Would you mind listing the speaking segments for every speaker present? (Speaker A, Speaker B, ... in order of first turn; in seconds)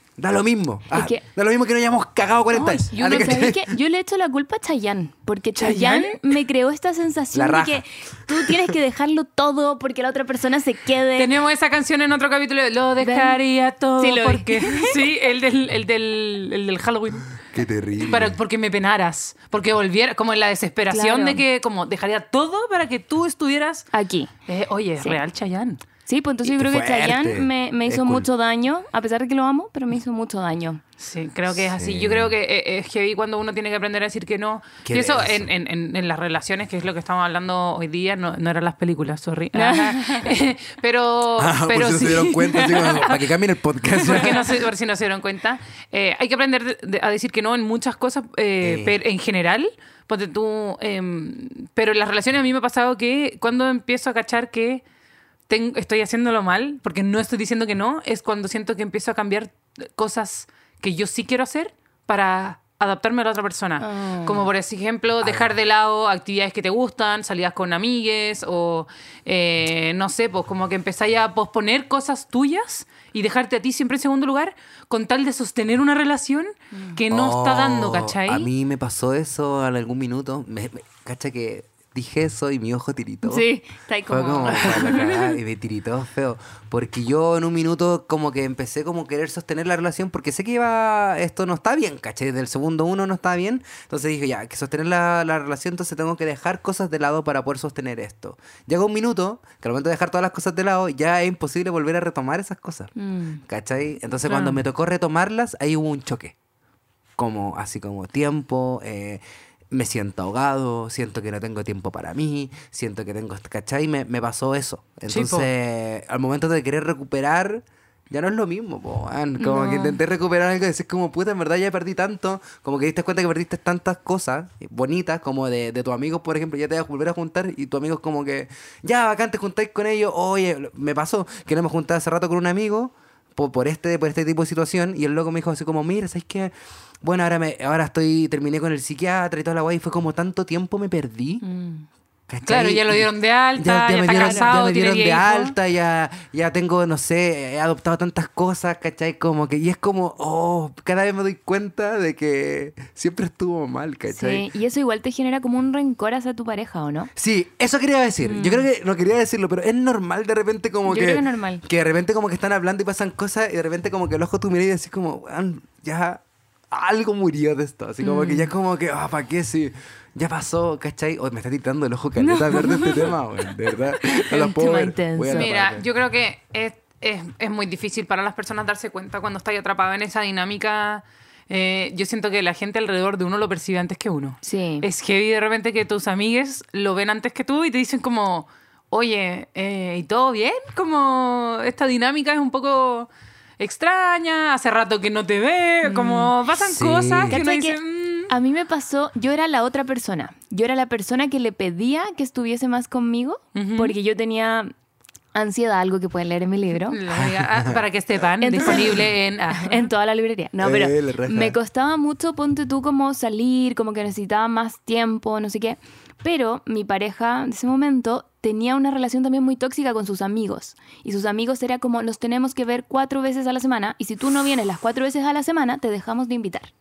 Speaker A: 0.2-3.7, 7.3-7.8, 17.5-18.3, 26.4-28.3, 31.5-32.3, 34.8-35.5, 41.4-44.6, 48.6-48.9, 65.2-65.5, 77.1-83.4, 84.1-102.9, 103.5-106.3, 107.2-141.4, 142.3-154.4, 157.2-175.8, 196.6-197.4, 207.1-207.8, 210.6-211.6
Speaker B: 0.9-1.2, 3.0-11.3, 13.0-13.4, 14.0-15.1, 20.9-21.4, 23.9-24.3, 26.1-30.8, 39.5-40.3, 63.8-64.5, 83.2-85.2, 103.0-103.4, 119.4-120.0, 141.4-141.8, 144.1-144.6, 154.1-157.1, 158.2-158.7, 160.8-161.6, 168.0-168.5, 172.2-173.1, 173.9-175.5, 184.4-184.9, 195.8-196.3, 197.3-204.7, 205.3-207.0, 208.4-226.7
Speaker C: 2.5-3.5, 5.5-6.2, 11.2-17.3, 18.0-23.9, 24.5-25.8, 31.0-43.2, 44.0-54.8, 55.5-78.5, 84.7-85.2, 104.2-104.6, 115.1-115.5, 142.4-145.5, 175.3-198.3, 203.5-204.0, 206.9-209.9